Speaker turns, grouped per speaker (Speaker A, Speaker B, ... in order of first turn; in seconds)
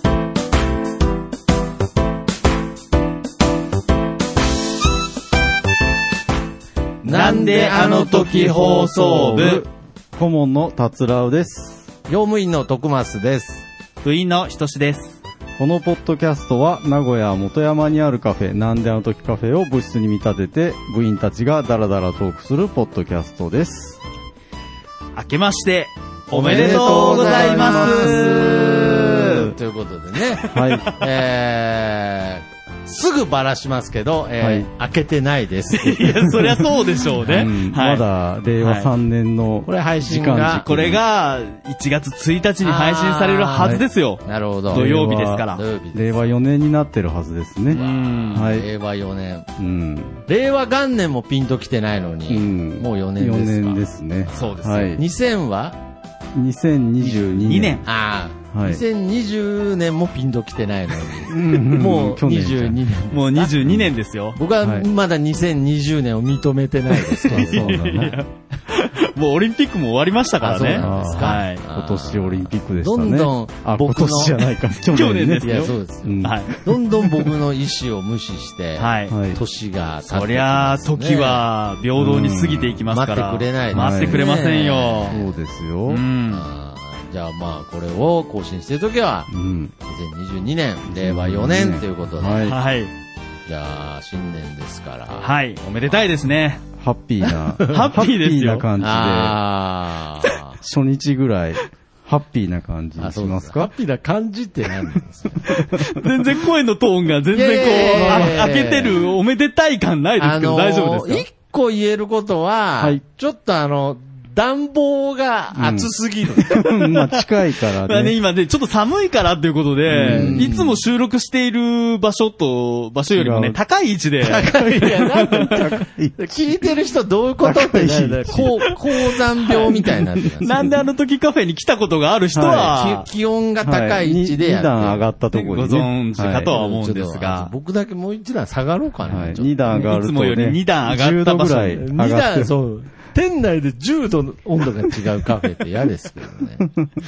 Speaker A: 7.0-9.6, 12.1-13.7, 26.3-36.5, 39.6-40.6, 42.6-44.9, 45.5-46.4, 47.7-49.5, 50.3-55.8, 57.8-63.7, 64.3-68.0, 70.4-74.5, 75.4-81.4, 82.9-85.3, 86.3-92.5, 93.5-96.2, 98.8-100.6, 103.0-105.6, 107.3-109.1, 110.2-116.6, 119.9-120.8, 124.2-130.8, 132.5-135.2, 136.4-139.9, 141.8-146.7
Speaker B: 7.0-9.7, 14.0-15.2, 25.1-29.4, 35.7-38.0, 38.6-38.9, 40.6-45.6, 47.7-48.5, 54.3-55.0, 57.0-57.8, 63.1-64.4, 67.1-71.6, 74.9-76.5, 78.8-79.1, 80.1-85.2, 85.9-86.5, 92.4-92.9, 95.2-96.6, 97.6-98.7, 105.5-111.2, 117.8-125.5, 130.4-133.1, 135.3-137.5, 139.7-141.8
Speaker C: 9.3-11.9, 15.6-24.0, 26.3-29.5, 30.4-30.9, 34.4-34.7, 37.2-41.0, 43.6-43.8, 44.7-48.7, 49.6-50.2, 52.3-55.0, 56.3-57.8, 58.5-58.8, 61.3-62.8, 64.6-64.9, 67.2-68.2, 70.8-77.3, 79.1-79.4, 82.0-82.8, 83.7-84.2, 85.1-86.0, 89.3-89.7, 90.9-92.6, 96.7-99.4, 100.6-103.7, 107.8-108.5, 115.5-118.2, 119.9-120.5, 123.1-123.6, 125.3-126.5, 127.4-128.6, 129.6-130.8, 132.3-132.8, 133.6-136.5, 139.0-142.5